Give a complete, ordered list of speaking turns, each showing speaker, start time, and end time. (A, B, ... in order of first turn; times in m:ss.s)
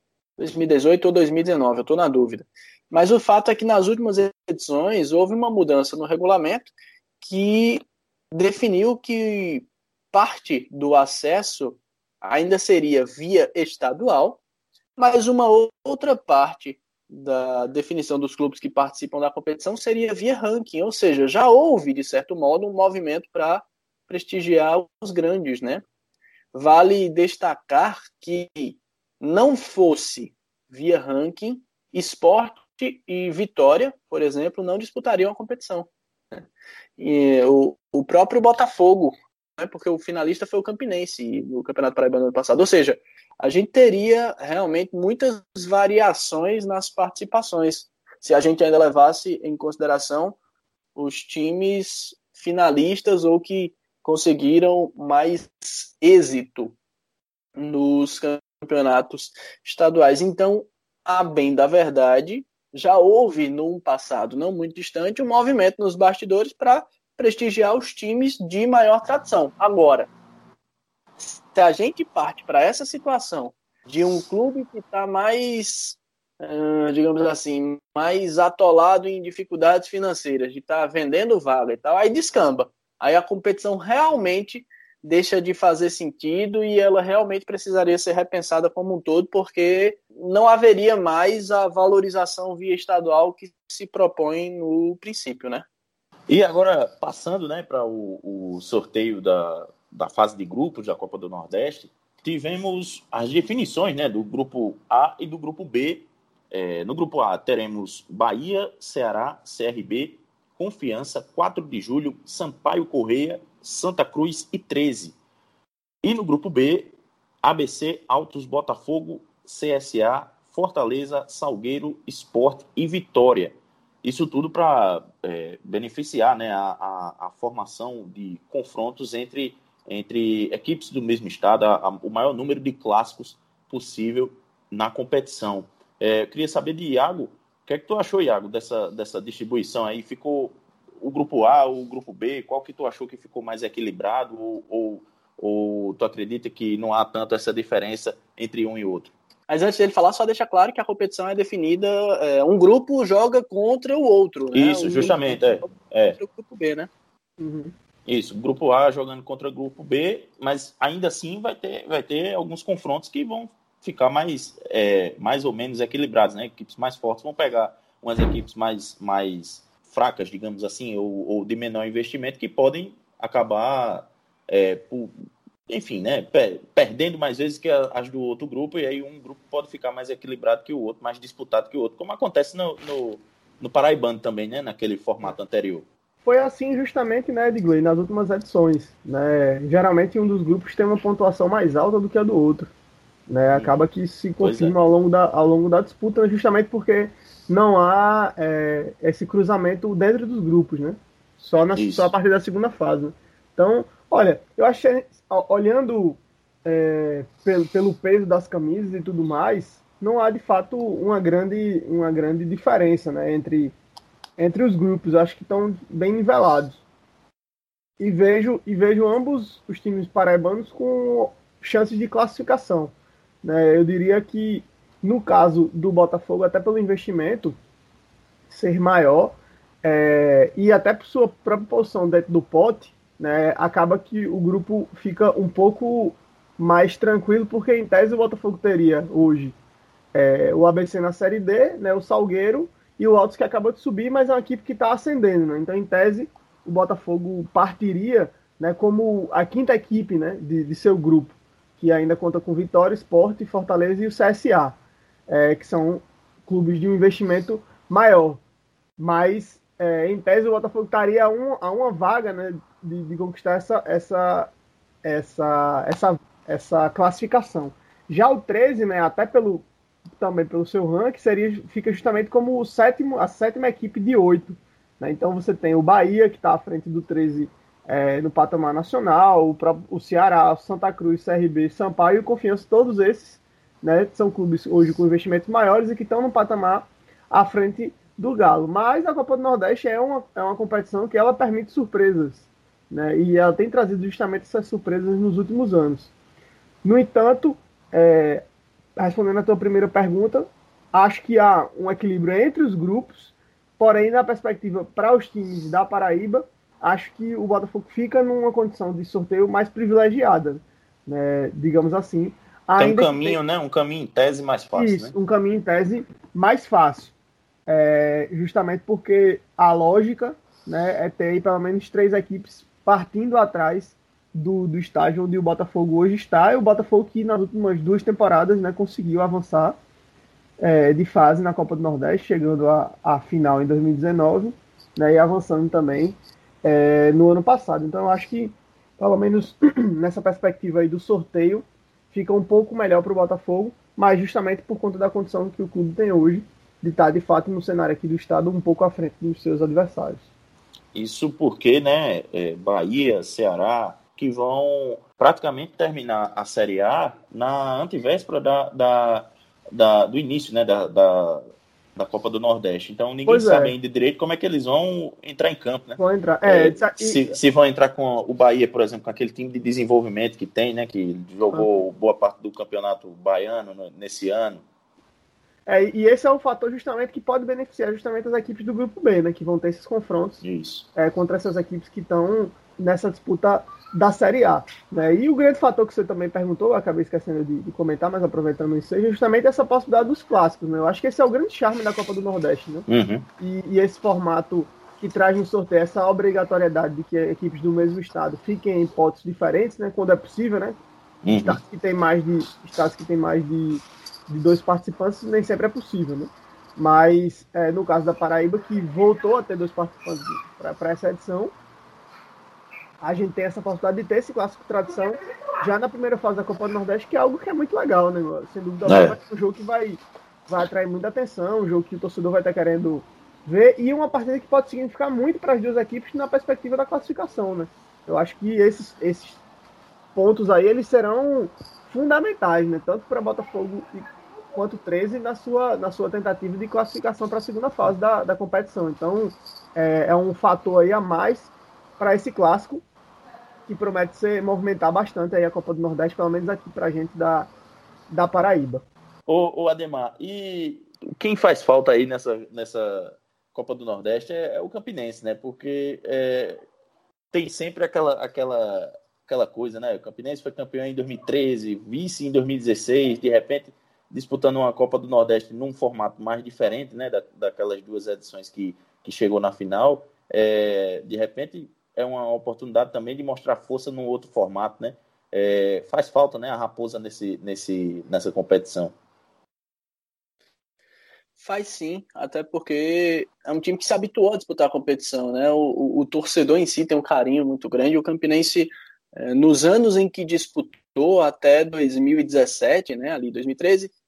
0:00.4-0:14.4 A
0:15.0-0:25.8 A
0:26.5-0:36.4 A
0:37.0-0:50.4 A
0:51.0-0:56.8 A
0:57.6-1:10.1 A
1:11.2-1:35.6 A
1:36.3-1:55.2 B
1:56.0-2:29.1 B
2:29.5-2:36.9 A
2:34.5-2:36.2 B
2:37.4-2:37.7 C
2:38.1-2:55.1 B
2:55.7-3:05.9 B
3:06.2-3:12.7 C
3:13.3-3:33.8 C
3:14.4-3:14.7 B
3:21.8-3:22.1 B
3:34.4-3:36.8 C
3:38.0-3:47.6 C
3:48.5-3:59.6 C
4:00.1-4:14.8 C
4:15.3-4:18.4 C
4:19.0-4:24.5 C
4:25.0-4:29.6 C
4:30.2-4:56.1 C
4:56.8-4:58.4 C
4:59.0-5:13.4 C
5:12.8-5:15.1 B
5:14.8-5:17.1 C
5:17.7-5:29.8 C
5:30.6-5:50.2 C
5:50.9-6:01.4 B
6:02.0-6:14.6 B
6:03.3-6:03.7 C
6:06.0-6:07.3 C
6:15.7-6:20.4 C
6:20.4-6:20.9 B
6:21.0-6:32.9 C
6:32.9-6:33.3 B
6:33.4-6:40.8 C
6:41.2-6:41.6 B
6:41.3-6:51.5 C
6:53.0-7:09.4 C
6:58.9-6:59.2 B
7:10.2-7:22.8 C
7:23.7-7:27.5 C
7:28.1-7:28.8 C
7:29.3-7:36.6 B
7:37.3-7:58.9 B
8:01.4-8:13.9 A